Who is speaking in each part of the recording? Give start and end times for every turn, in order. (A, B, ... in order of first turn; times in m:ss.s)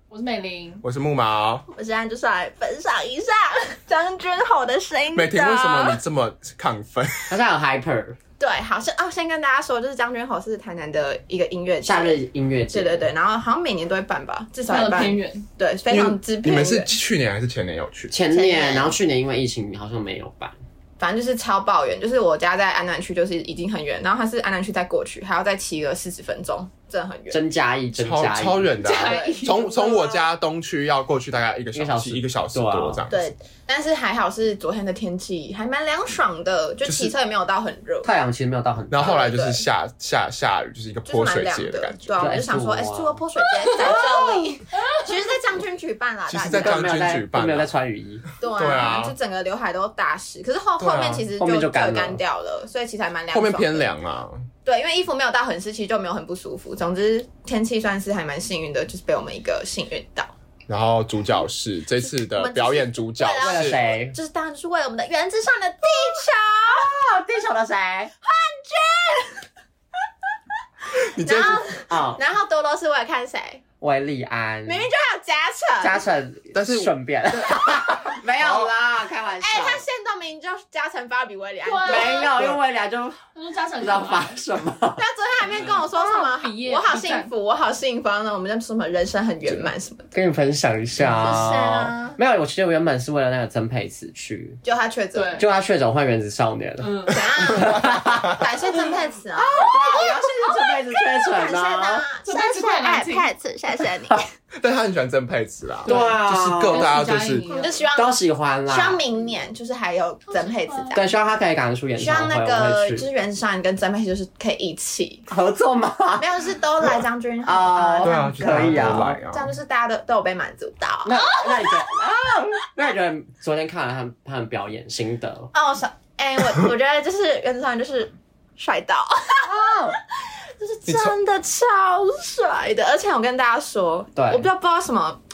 0:00.1-0:00.8 A
0:00.8-0:01.6 B
0:01.7-0:06.0 C
0:05.1-0:07.4 B
0:07.3-0:08.2 D
0:08.4-0:12.2 C
0:11.8-0:13.1 D
0:12.7-0:16.9 C
0:14.7-0:15.5 A
0:15.9-0:18.1 B
0:18.1-0:20.5 D
0:18.3-0:18.9 C
0:21.0-0:27.4 C
0:27.3-0:28.9 D
0:28.0-0:33.3 B
0:28.8-0:29.7 A
0:29.0-0:30.3 C
0:31.7-0:33.0 D
0:33.1-0:38.1 C
0:36.8-0:37.1 B
0:38.0-0:39.2 D
0:38.9-0:42.1 B
0:39.0-0:39.6 C
0:41.1-0:47.0 C
0:42.2-0:43.2 D
0:43.8-0:44.4 A
0:46.3-0:47.7 B
0:46.5-0:48.2 D
0:48.4-0:53.8 C
0:48.6-0:49.1 B
0:50.8-0:51.3 B
0:51.4-0:52.2 D
0:53.3-0:54.5 B
0:54.6-1:00.3 C
1:00.7-1:03.8 B
1:02.2-1:06.9 C
1:03.4-1:04.1 D
1:06.8-1:08.1 D
1:08.2-1:09.4 C
1:11.1-1:11.7 B
1:11.2-1:13.6 C
1:11.9-1:12.2 D
1:13.8-1:14.9 D
1:14.6-1:16.0 C
1:15.8-1:19.8 D
1:16.5-1:18.7 B
1:19.4-1:22.3 C
1:21.6-1:22.3 A
1:21.8-1:23.2 D
1:23.3-1:24.4 A
1:23.8-1:25.0 D
1:25.0-1:30.1 C
1:25.6-1:27.3 A
1:29.5-1:34.6 D
1:31.2-1:32.2 C
1:34.6-1:35.4 C
1:35.1-1:35.4 A
1:35.4-1:38.4 D
1:36.8-1:37.2 A
1:37.1-1:44.3 C
1:39.3-1:42.0 D
1:42.2-1:43.3 A
1:44.5-1:47.4 B
1:45.8-1:47.0 D
1:45.8-1:47.8 A
1:47.5-1:48.2 C
1:47.9-1:49.0 D
1:48.7-1:51.0 C
1:50.3-1:51.0 A
1:50.9-1:53.1 D
1:52.0-1:55.3 C
1:55.3-1:56.3 D
1:56.2-2:01.8 C
1:57.4-1:59.2 D
1:58.0-1:59.5 B
2:01.0-2:05.5 D
2:05.5-2:15.2 C
2:09.4-2:10.0 D
2:10.9-2:11.2 B
2:14.2-2:14.5 D